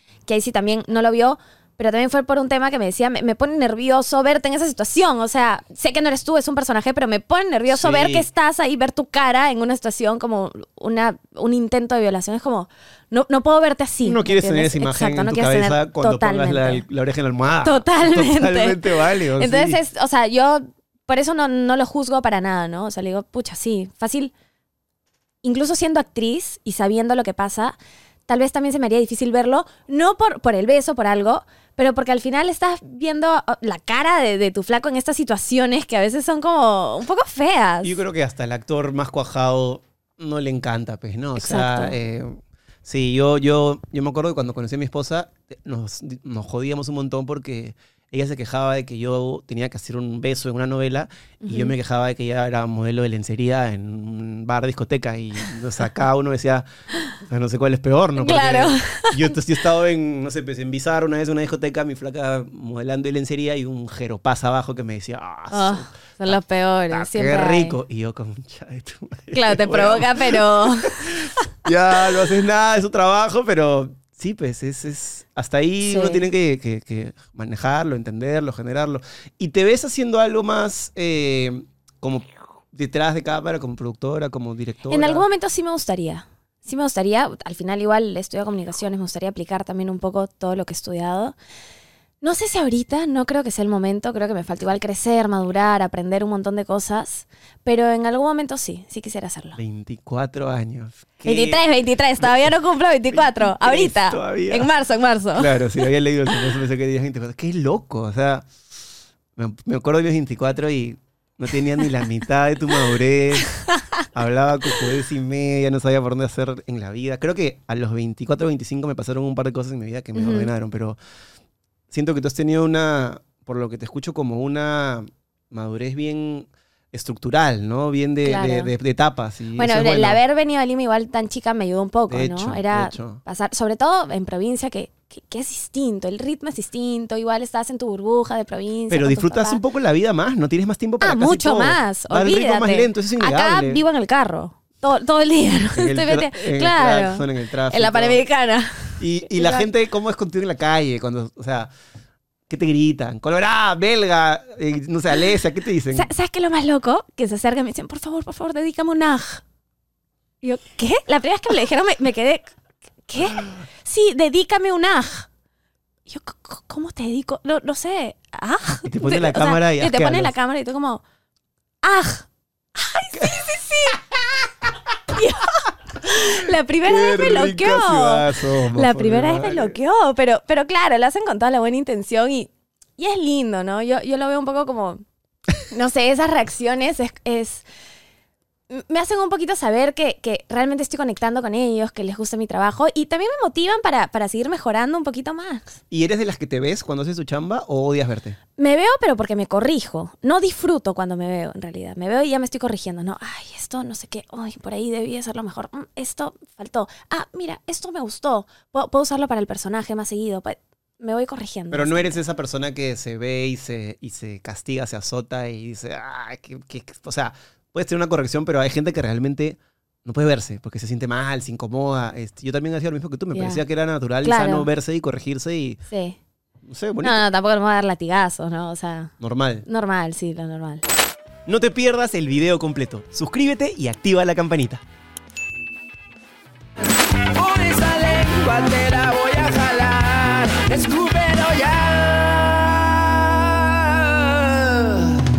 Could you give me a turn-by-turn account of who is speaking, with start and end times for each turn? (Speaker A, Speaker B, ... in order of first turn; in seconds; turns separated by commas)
Speaker A: 0.3-16.8, Speaker B: 7.7-8.3, Speaker B: 14.0-19.8, Speaker A: 17.6-24.3, Speaker A: 25.4-38.0, Speaker B: 37.8-56.7, Speaker A: 41.4-42.0, Speaker A: 51.4-51.8, Speaker B: 57.2-66.4, Speaker A: 58.2-59.3, Speaker A: 65.5-67.8, Speaker B: 66.9-85.3, Speaker A: 69.3-71.3, Speaker A: 75.8-76.3, Speaker A: 84.9-91.4, Speaker A: 92.2-99.6, Speaker B: 99.6-101.6, Speaker A: 101.2-105.9, Speaker B: 102.2-102.5, Speaker B: 103.1-104.7, Speaker B: 105.3-108.5, Speaker B: 109.4-113.5, Speaker B: 114.1-121.0, Speaker A: 120.2-120.5, Speaker B: 121.9-130.2, Speaker A: 128.2-128.7, Speaker A: 129.6-139.6, Speaker B: 132.1-133.2, Speaker B: 138.9-143.8, Speaker A: 141.0-149.7, Speaker B: 145.7-148.2, Speaker B: 149.0-151.7, Speaker B: 152.5-156.1, Speaker A: 155.9-159.4, Speaker A: 160.4-162.6, Speaker A: 163.1-165.3, Speaker A: 166.1-171.0, Speaker B: 168.8-170.3, Speaker A: 171.8-174.3, Speaker A: 175.1-185.0, Speaker B: 176.8-179.8, Speaker A: 185.7-187.7, Speaker A: 188.7-195.8, Speaker B: 195.9-198.4, Speaker A: 198.6-212.2, Speaker B: 211.7-225.8, Speaker A: 223.3-223.6, Speaker A: 224.2-224.7, Speaker A: 225.9-226.2, Speaker B: 226.7-227.2, Speaker A: 227.0-229.1, Speaker B: 229.2-229.7, Speaker A: 229.7-230.8, Speaker B: 231.5-234.8, Speaker C: 237.3-242.8, Speaker C: 243.7-244.2